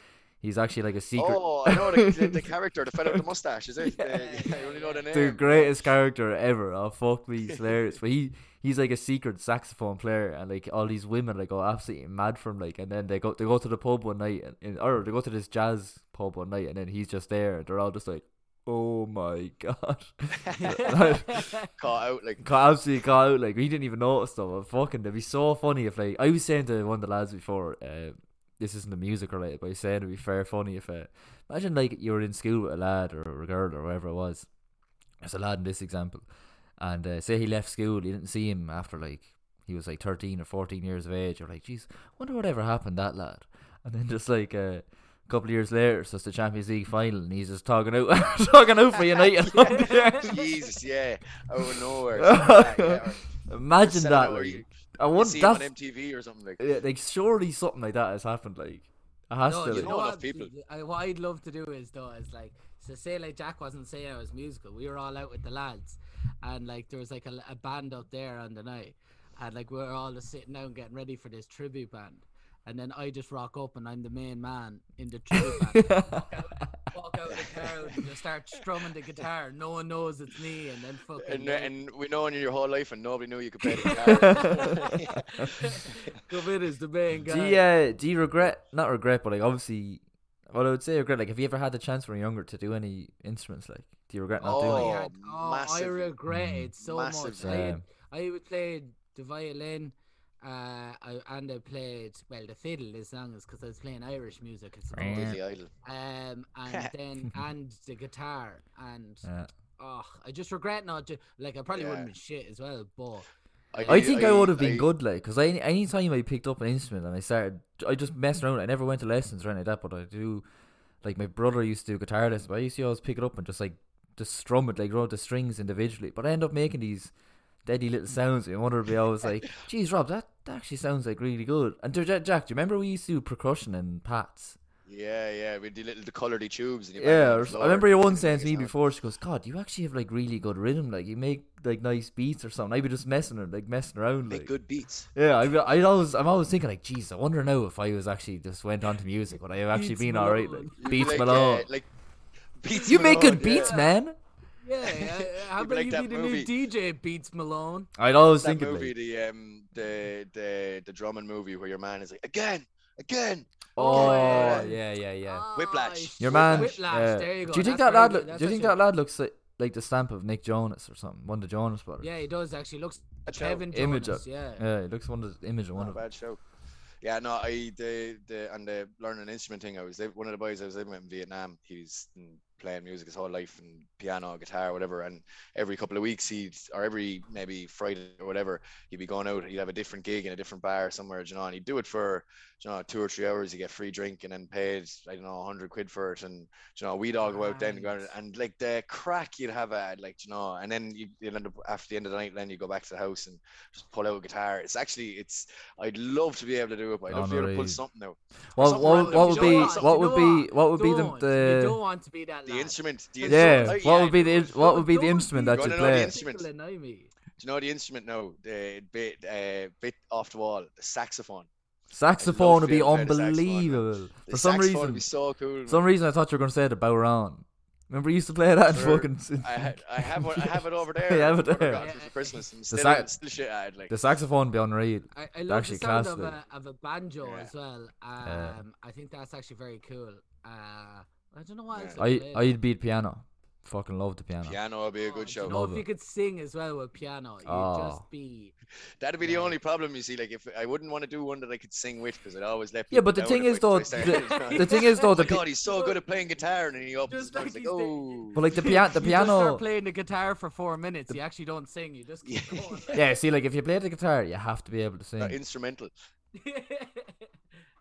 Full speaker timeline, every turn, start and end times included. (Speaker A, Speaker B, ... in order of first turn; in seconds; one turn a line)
Speaker A: 0.4-2.4
Speaker B: 1.1-5.6
Speaker A: 3.9-4.3
Speaker C: 4.0-5.7
Speaker A: 5.1-21.4
Speaker B: 20.4-22.4
Speaker C: 20.5-21.7
Speaker A: 22.4-34.5
Speaker A: 35.2-36.2
Speaker A: 36.8-50.5
Speaker C: 49.5-50.3
Speaker B: 49.6-53.3
Speaker A: 52.1-55.7
Speaker B: 53.8-56.6
Speaker A: 56.6-59.9
Speaker C: 59.5-81.7
Speaker B: 59.7-60.5
Speaker A: 75.5-76.6
Speaker B: 77.3-77.7
Speaker B: 81.2-86.2
Speaker C: 83.6-87.6
Speaker A: 83.9-84.9
Speaker A: 87.3-94.9
Speaker C: 94.4-109.2
Speaker B: 94.4-96.1
Speaker A: 96.3-96.7
Speaker B: 96.8-97.7
Speaker A: 97.4-97.8
Speaker A: 104.9-105.4
Speaker B: 105.1-105.7
Speaker A: 109.2-109.5
Speaker C: 109.8-114.2
Speaker B: 111.7-112.1
Speaker B: 113.7-114.9
Speaker A: 113.9-120.4
Speaker A: 121.0-127.1
Speaker A: 127.6-134.6
Speaker B: 134.9-138.7
Speaker A: 137.0-144.5
Speaker B: 144.3-145.1
Speaker A: 145.1-151.7
Speaker C: 149.7-151.1
Speaker B: 150.8-151.9
Speaker B: 152.6-153.7
Speaker C: 152.7-154.0
Speaker A: 152.8-154.1
Speaker C: 154.6-157.9
Speaker B: 154.8-156.5
Speaker A: 158.0-158.9
Speaker B: 158.4-164.7
Speaker A: 163.8-165.4
Speaker C: 163.8-168.8
Speaker B: 165.5-166.8
Speaker A: 166.2-172.1
Speaker C: 172.0-174.6
Speaker B: 173.2-173.7
Speaker A: 173.7-176.0
Speaker B: 175.8-176.4
Speaker B: 177.0-210.0
Speaker C: 197.2-198.1
Speaker A: 207.1-207.8
Speaker A: 208.5-211.8
Speaker C: 208.6-217.1
Speaker B: 212.4-214.6
Speaker A: 213.3-216.1
Speaker B: 215.5-216.4
Speaker B: 217.4-221.5
Speaker A: 221.9-225.0
Speaker B: 222.2-225.8
Speaker A: 225.7-231.8
Speaker B: 228.7-233.9
Speaker C: 231.8-232.4
Speaker A: 232.7-233.1
Speaker A: 233.9-236.3
Speaker C: 235.1-242.6
Speaker B: 237.2-237.5
Speaker A: 238.2-238.6
Speaker B: 241.7-242.0
Speaker A: 242.0-244.6
Speaker B: 244.4-245.6
Speaker C: 245.0-248.5
Speaker A: 245.5-245.8
Speaker A: 247.4-248.0
Speaker B: 249.0-258.5
Speaker C: 249.2-249.5
Speaker A: 252.9-255.4
Speaker C: 253.9-256.0
Speaker C: 257.1-263.1
Speaker A: 258.3-259.6
Speaker B: 262.2-263.0
Speaker A: 262.9-265.4
Speaker B: 265.2-265.9
Speaker C: 266.3-267.3